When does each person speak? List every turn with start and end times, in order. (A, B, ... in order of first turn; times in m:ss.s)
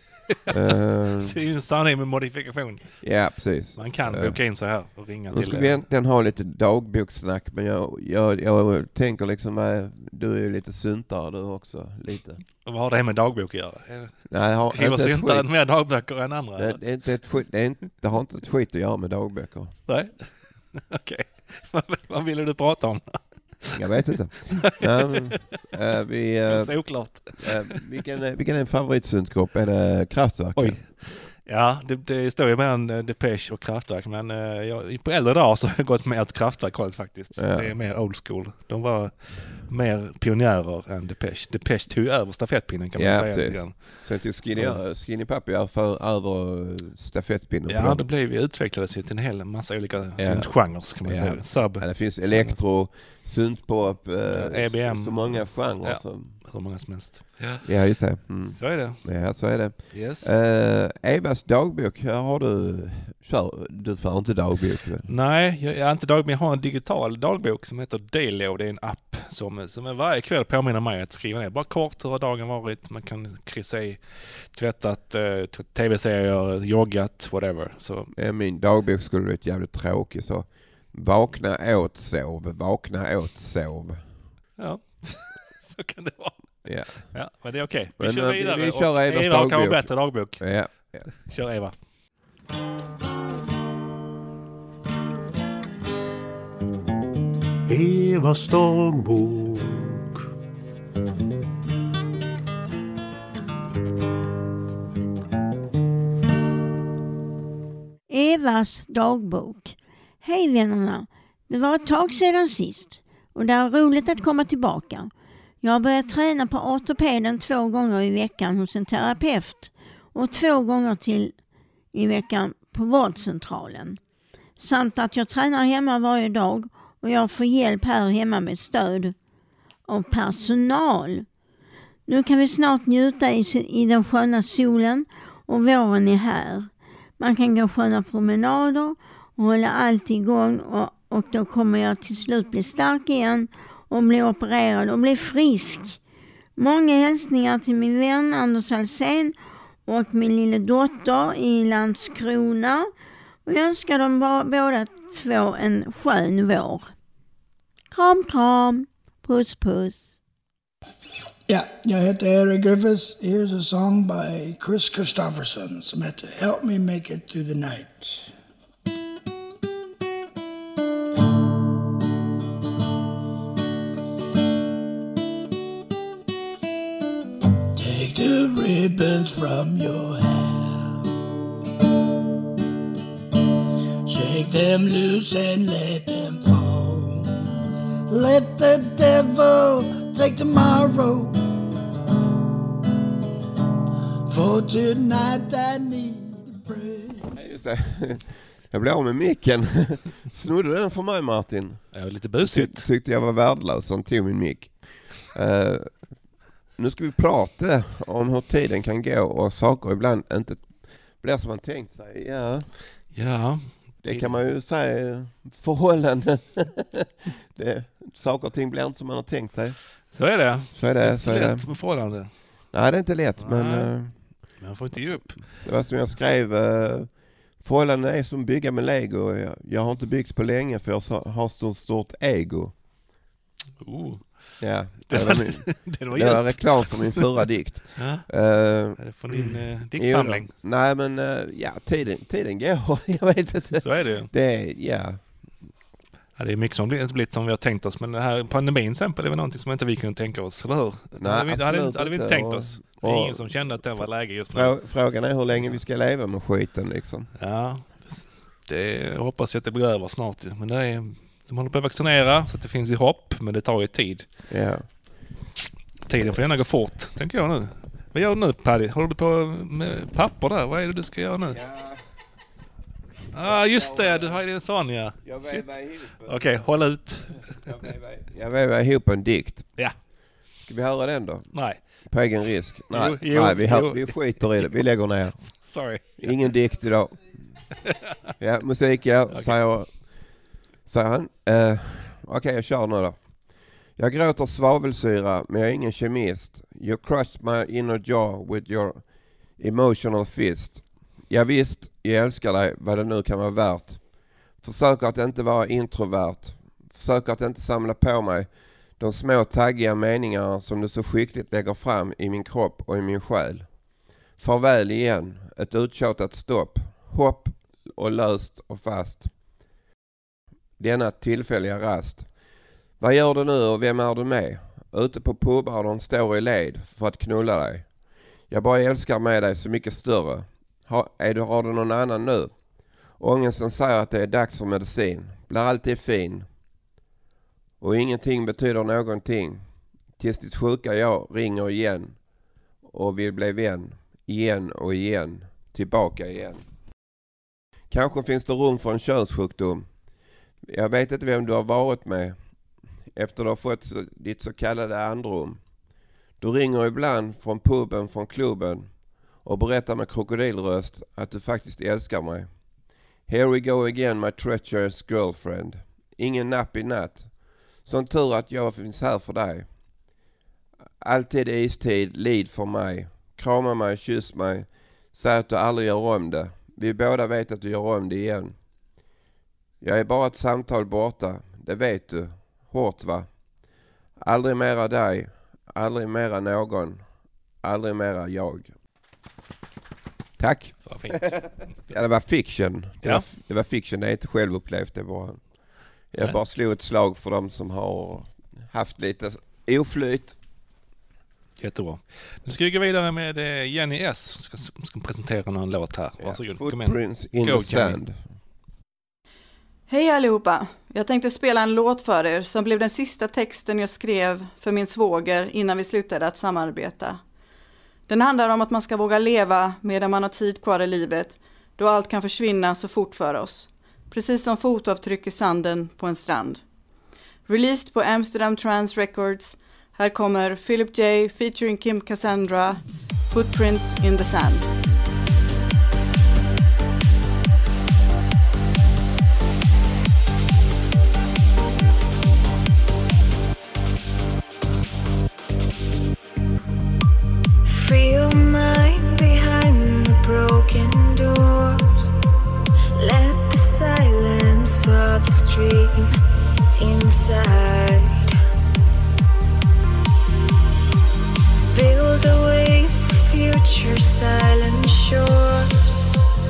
0:00.5-0:01.4 A
0:01.2-0:03.0 B
0:03.0-0:04.4 A
0:03.8-0:05.8 B
0:05.3-0:12.4 A
0:12.6-0:16.8 B
0:14.3-0:15.5 A
0:16.6-0:19.7 A
0:19.9-0:23.8 B
0:23.7-0:30.8 A
0:24.6-0:25.3 B
0:26.5-0:27.7 B
0:30.6-0:44.8 B
0:37.4-0:37.8 A
0:43.0-0:48.0 A
0:47.7-0:52.6 B
0:50.2-0:56.4 A
0:54.3-0:57.7 B
0:57.6-1:05.1 A
0:58.4-0:59.0 B
0:59.9-1:00.3 B
1:05.1-1:18.1 B
1:18.2-1:24.0 A
1:24.6-1:31.7 B
1:26.7-1:27.0 A
1:28.0-1:31.1 A
1:37.7-1:40.0 C
1:48.1-1:55.1 D
1:55.6-2:01.3 D
2:01.9-2:04.0 D
2:04.6-2:09.2 D
2:09.9-2:11.3 D
2:12.1-2:26.0 D
2:26.6-2:29.4 D
2:29.9-2:32.9 D
2:33.5-2:36.9 D
2:37.9-2:40.2 D
2:41.5-2:48.3 E
2:57.8-3:01.0 E
3:04.0-3:07.5 E
3:08.1-3:11.4 E
3:14.3-3:17.3 E
3:17.3-3:26.0 A
3:21.9-3:22.9 B
3:26.8-3:32.7 A
3:33.1-3:34.4 B
3:34.0-3:39.8 A
3:40.1-3:42.3 B
3:40.7-3:41.7 A
3:42.7-3:44.1 A
3:43.4-3:43.9 B
3:44.6-3:45.5 B
3:45.6-3:52.7 A
3:53.8-3:57.3 B
3:54.6-4:05.2 A
3:58.0-3:58.3 B
3:59.0-4:00.5 B
4:03.7-4:04.3 B
4:06.4-4:14.8 B
4:11.2-4:17.3 A
4:15.5-4:15.8 B
4:17.4-4:24.3 B
4:24.5-4:24.8 A
4:26.1-4:31.6 B
4:31.5-4:32.0 A
4:33.3-4:35.7 B
4:33.4-4:34.4 A
4:35.2-4:36.6 A
4:36.2-4:37.5 B
4:37.6-4:39.7 A
4:40.6-4:45.4 A
4:41.5-4:41.8 B
4:42.9-4:44.9 B
4:45.4-4:46.5 B
4:46.2-4:47.2 A
4:47.8-4:48.1 B
4:48.4-4:50.0 A
4:49.3-4:49.6 B
4:50.9-4:53.2 A
4:54.0-4:59.0 A
4:59.6-5:04.0 A
5:04.6-5:13.7 A
5:14.4-5:19.3 A
5:20.8-5:22.3 A
5:23.0-5:27.9 A
5:28.5-5:32.5 A
5:33.2-5:36.5 A
5:37.8-5:39.6 A
5:40.2-5:42.2 A
5:42.9-5:46.6 A
5:47.9-5:49.9 A
5:50.7-5:52.4 A
5:53.1-5:55.6 A
5:56.4-5:58.9 A
5:59.4-6:02.5 A
6:03.3-6:07.3 A
6:07.8-6:09.7 A
6:11.0-6:18.5 A
6:19.8-6:23.3 A
6:24.2-6:27.0 A
6:27.6-6:28.7 A
6:30.4-6:35.4 A
6:30.9-6:31.4 B
6:36.1-6:40.4 A
6:41.6-6:48.0 B
6:46.2-6:48.2 A
6:49.9-6:57.2 F
6:58.1-7:06.6 F
7:07.5-7:14.7 F
7:27.6-7:32.1 G
7:33.0-7:36.2 G
7:36.8-7:38.4 G
7:41.7-7:46.2 G